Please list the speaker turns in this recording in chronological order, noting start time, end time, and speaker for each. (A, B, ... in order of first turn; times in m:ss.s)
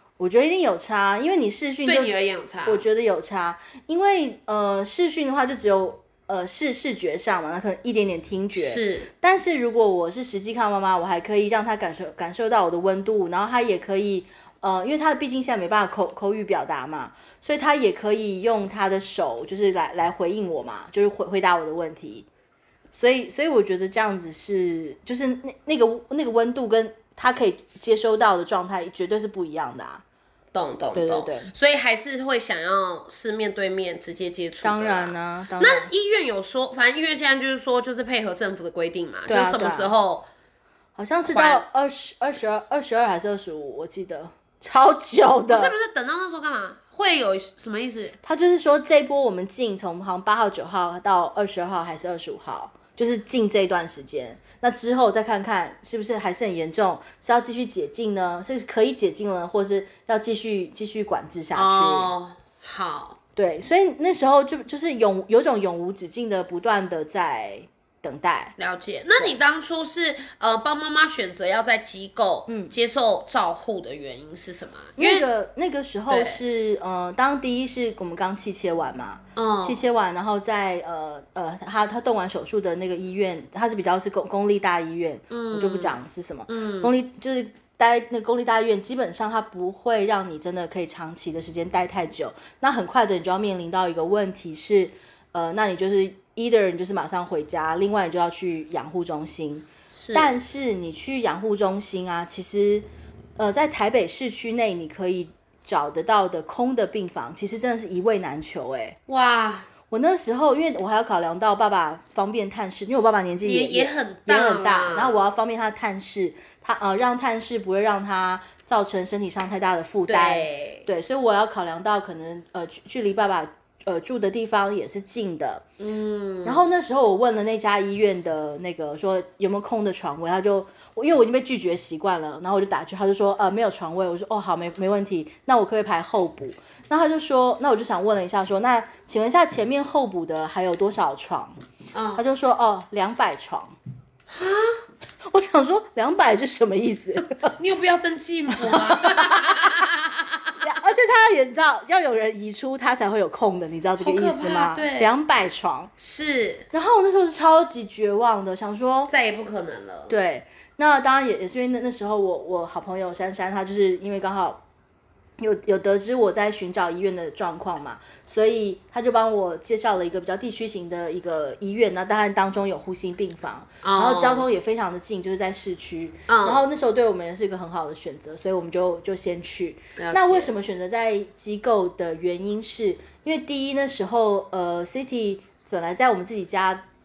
0:00.2-0:22.3 A
0:01.8-0:02.8 B
0:08.6-0:09.1 B
0:22.9-0:30.0 A
0:30.5-0:40.3 B
0:30.9-0:31.5 A
0:34.6-0:35.9 A
0:39.3-0:39.9 A
0:41.0-0:45.7 A
0:41.3-0:41.6 B
0:45.5-0:48.2 B
0:48.2-1:02.1 A
1:01.5-1:03.2 B
1:03.4-1:08.5 A
1:08.6-1:15.2 B
1:12.5-1:12.7 A
1:15.0-1:49.0 A
1:16.1-1:16.4 B
1:19.4-1:19.8 B
1:25.3-1:25.9 B
1:26.5-1:26.9 B
1:39.9-1:40.3 B
1:49.1-1:49.7 B
1:49.9-2:05.6 A
1:53.4-1:55.2 B
2:00.1-2:00.9 B
2:05.8-2:06.6 B
2:06.4-2:21.5 A
2:21.9-2:22.2 B
2:22.2-2:23.7 A
2:24.3-2:24.8 B
2:25.3-2:27.5 A
2:27.5-2:30.6 B
2:28.6-2:29.7 A
2:30.6-2:35.9 A
2:34.0-2:35.1 B
2:36.0-2:36.6 B
2:36.7-2:39.1 A
2:39.1-2:40.1 B
2:40.1-2:44.6 A
2:45.4-3:06.8 A
2:53.8-2:54.5 B
2:56.3-2:56.6 B
3:00.0-3:00.5 B